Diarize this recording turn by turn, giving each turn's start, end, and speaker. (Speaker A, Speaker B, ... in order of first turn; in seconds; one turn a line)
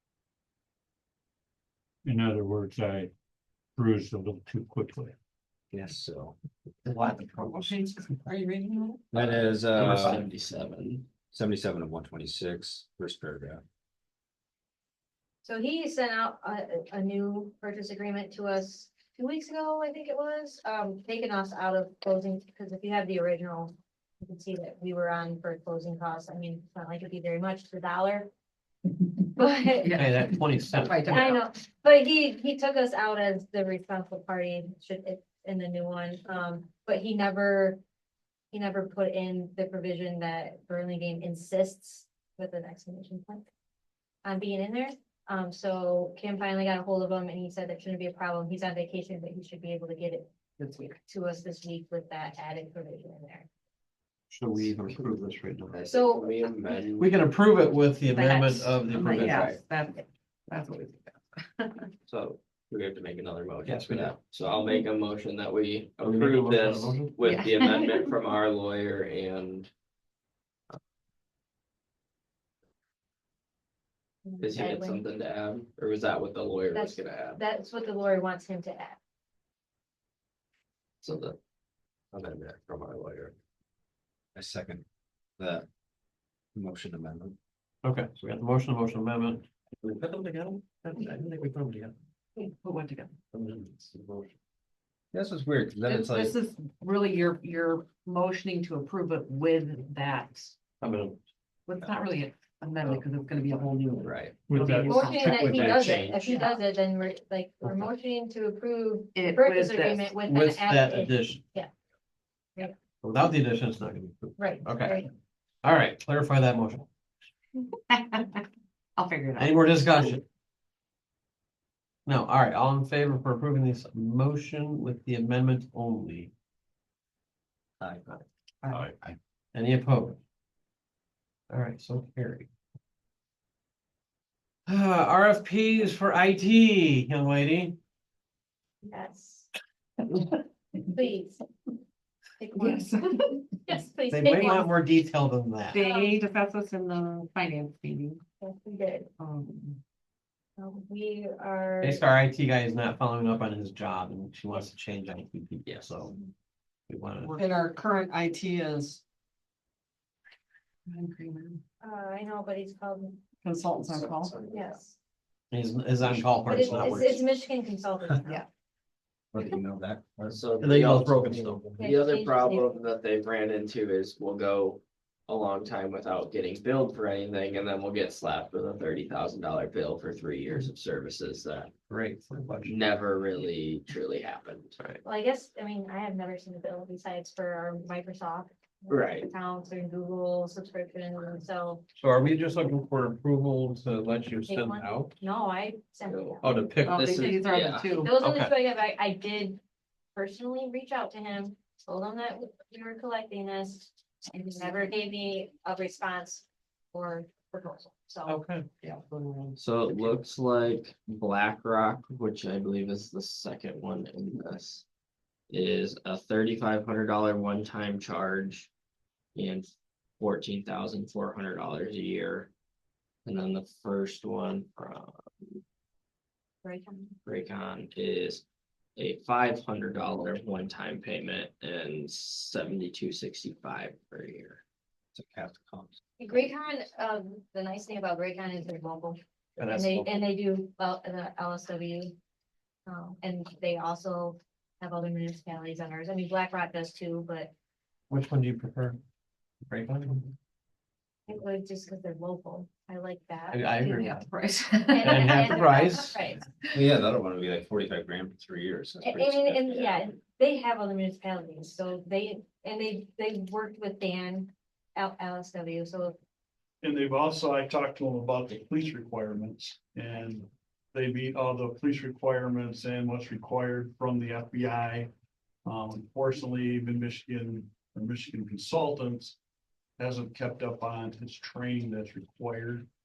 Speaker A: 2.0-3.1
Speaker A: 3.8-5.1
Speaker B: 5.7-6.4
Speaker C: 6.8-9.1
Speaker B: 9.1-10.2
Speaker D: 9.2-11.1
Speaker B: 11.3-13.6
Speaker E: 15.4-28.3
Speaker E: 29.3-30.0
Speaker C: 29.8-30.2
Speaker F: 29.9-31.3
Speaker C: 30.7-31.4
Speaker E: 31.1-37.8
Speaker E: 38.5-43.5
Speaker E: 44.2-50.3
Speaker C: 50.6-51.0
Speaker E: 51.0-53.5
Speaker F: 54.3-55.8
Speaker D: 55.7-57.1
Speaker E: 55.9-56.8
Speaker F: 57.0-59.6
Speaker C: 58.2-61.9
Speaker D: 59.2-59.6
Speaker D: 62.1-69.7
Speaker F: 63.6-64.2
Speaker F: 66.0-67.2
Speaker C: 67.2-68.2
Speaker E: 74.2-75.0
Speaker D: 74.4-77.4
Speaker E: 76.7-79.0
Speaker D: 81.0-81.4
Speaker D: 82.1-83.4
Speaker B: 84.3-84.8
Speaker B: 85.4-85.7
Speaker B: 86.5-87.4
Speaker F: 87.8-92.0
Speaker C: 92.4-93.2
Speaker F: 93.3-94.3
Speaker B: 95.1-96.3
Speaker C: 95.9-100.6
Speaker F: 100.8-101.2
Speaker C: 101.7-105.6
Speaker D: 104.0-104.4
Speaker A: 104.5-105.7
Speaker E: 104.9-111.7
Speaker F: 105.4-106.0
Speaker D: 105.6-106.4
Speaker C: 106.2-106.6
Speaker C: 109.2-110.2
Speaker F: 110.3-111.4
Speaker F: 113.0-115.0
Speaker E: 114.4-115.1
Speaker F: 115.6-116.9
Speaker C: 117.9-118.5
Speaker C: 119.0-120.1
Speaker F: 119.4-120.2
Speaker F: 122.1-126.3
Speaker C: 128.6-128.9
Speaker F: 129.5-130.2
Speaker F: 131.5-132.5
Speaker F: 134.7-137.8
Speaker E: 138.8-139.5
Speaker E: 140.9-141.4
Speaker E: 142.4-143.0
Speaker C: 142.5-143.6
Speaker E: 143.7-144.7
Speaker F: 144.1-145.8
Speaker C: 145.7-148.2
Speaker E: 145.8-146.2
Speaker E: 148.4-149.1
Speaker C: 149.2-149.8
Speaker E: 150.6-152.0
Speaker F: 151.8-156.1
Speaker D: 155.7-156.0
Speaker F: 156.9-157.4
Speaker C: 157.2-159.0
Speaker C: 160.9-161.6
Speaker E: 161.8-163.2
Speaker C: 163.4-164.4
Speaker E: 164.5-164.9
Speaker F: 165.5-167.2
Speaker B: 166.1-167.0
Speaker E: 166.5-168.4
Speaker B: 169.3-170.4
Speaker D: 170.3-181.7
Speaker F: 170.6-171.9
Speaker E: 171.8-172.7
Speaker F: 181.9-183.0
Speaker D: 182.7-184.8
Speaker E: 185.0-191.8
Speaker D: 188.9-189.3
Speaker F: 191.9-195.1
Speaker E: 194.5-196.5
Speaker D: 196.1-198.0
Speaker F: 196.4-197.4
Speaker C: 196.8-198.1
Speaker E: 198.0-199.6
Speaker F: 198.2-198.5
Speaker E: 200.2-208.4
Speaker F: 208.3-208.7
Speaker C: 208.8-209.6
Speaker D: 209.6-214.8
Speaker D: 215.5-218.7
Speaker D: 219.3-222.5
Speaker D: 223.2-225.6
Speaker E: 226.6-227.2
Speaker D: 227.2-228.4
Speaker D: 229.0-234.6
Speaker B: 235.1-236.0
Speaker E: 236.2-242.2
Speaker F: 239.6-240.1
Speaker E: 242.9-247.5
Speaker F: 248.1-249.0
Speaker F: 249.7-250.3
Speaker E: 251.3-254.1
Speaker F: 253.5-254.2
Speaker C: 253.8-255.9
Speaker E: 254.9-256.4
Speaker F: 255.0-256.1
Speaker B: 256.7-259.7
Speaker E: 259.0-266.2
Speaker G: 266.8-275.1
Speaker G: 275.7-279.4
Speaker G: 280.0-282.9